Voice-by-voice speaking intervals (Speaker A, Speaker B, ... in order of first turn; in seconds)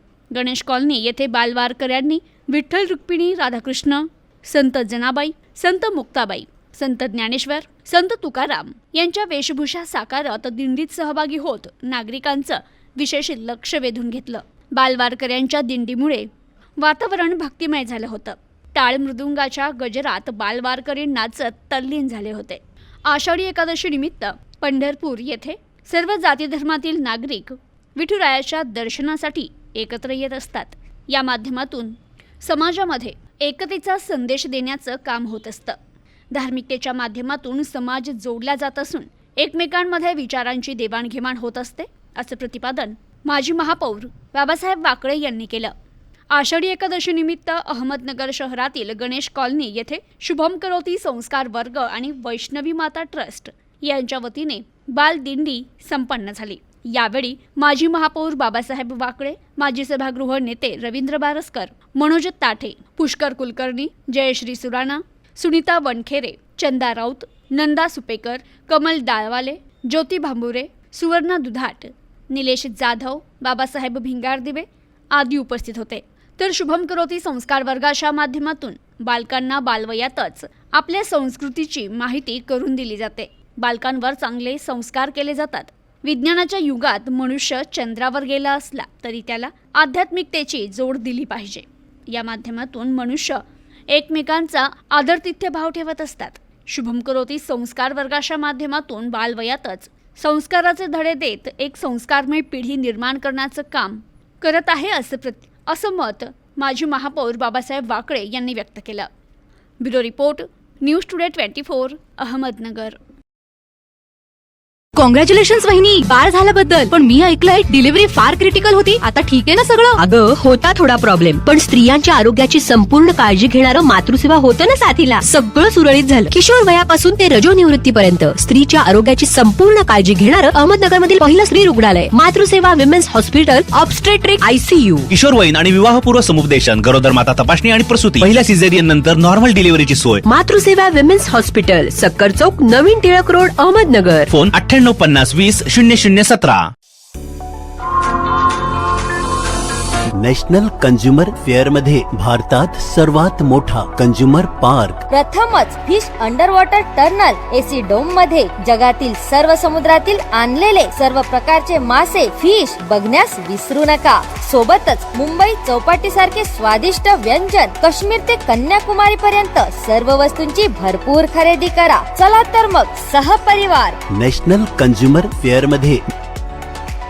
Speaker A: 0.3-35.8, 36.3-45.7, 46.3-109.1, 109.8-113.0
Speaker B: 115.0-120.0
Speaker C: 120.0-135.1, 140.2-144.3
Speaker D: 135.1-140.2, 144.3-146.6
Speaker E: 150.2-155.0, 174.1-176.0
Speaker F: 155.1-174.0